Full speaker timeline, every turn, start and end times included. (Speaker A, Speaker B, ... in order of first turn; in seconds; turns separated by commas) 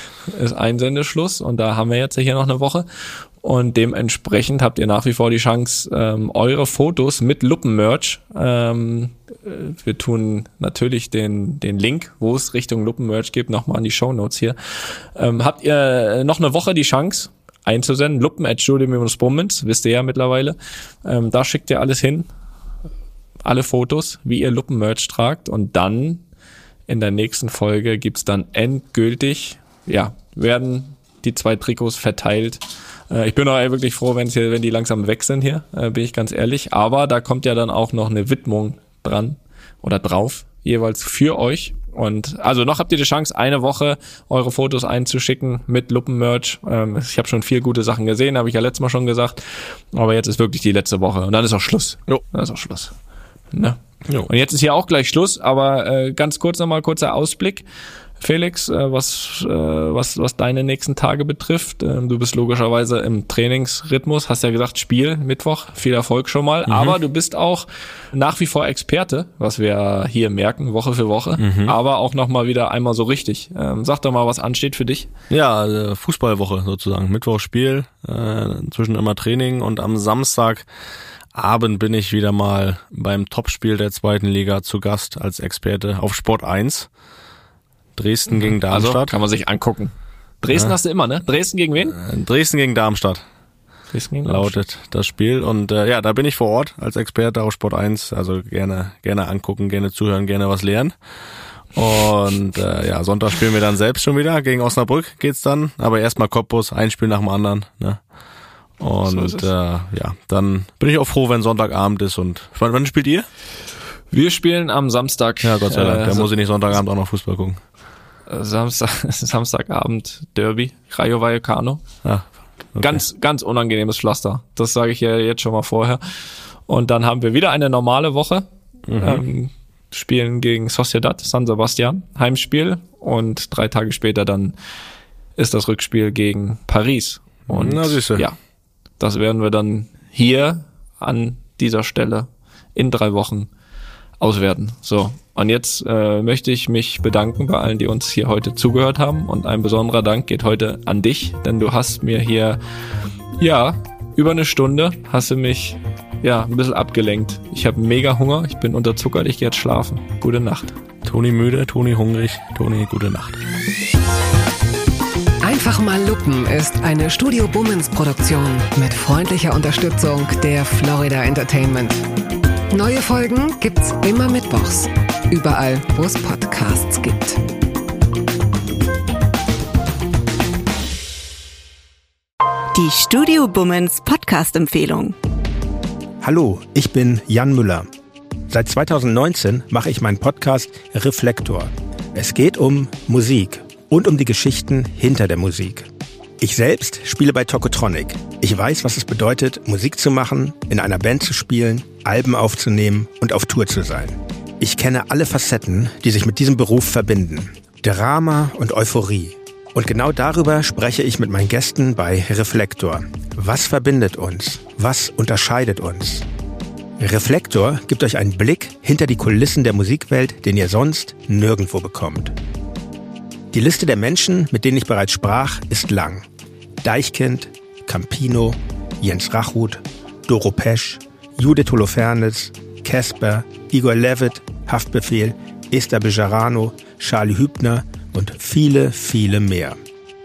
Speaker A: 0.3-2.9, Speaker A: 3.4-22.3, Speaker A: 23.4-26.2, Speaker A: 26.9-52.9, Speaker A: 53.5-57.6, Speaker A: 58.2-75.1, Speaker B: 66.7-67.0, Speaker B: 71.4-71.8, Speaker B: 75.3-80.7, Speaker B: 81.3-86.9, Speaker B: 88.0-89.2, Speaker A: 88.3-92.0, Speaker B: 91.9-93.2, Speaker A: 93.9-94.6, Speaker B: 94.2-101.0, Speaker B: 101.7-108.0, Speaker B: 108.8-113.3, Speaker A: 109.0-109.5, Speaker A: 114.1-116.3, Speaker B: 115.4-117.6, Speaker A: 118.3-121.8, Speaker B: 122.0-123.0, Speaker A: 122.8-126.0, Speaker A: 126.7-134.6, Speaker B: 128.9-129.2, Speaker A: 135.4-138.4, Speaker B: 137.5-138.2, Speaker A: 139.0-143.5, Speaker A: 144.2-152.6, Speaker A: 153.4-160.7, Speaker B: 161.1-163.4, Speaker C: 165.4-172.1, Speaker C: 172.7-177.4, Speaker D: 182.7-185.2, Speaker E: 186.2-187.9, Speaker E: 188.5-195.9, Speaker E: 196.4-216.3, Speaker E: 217.0-222.3, Speaker E: 223.5-226.2, Speaker E: 226.8-239.8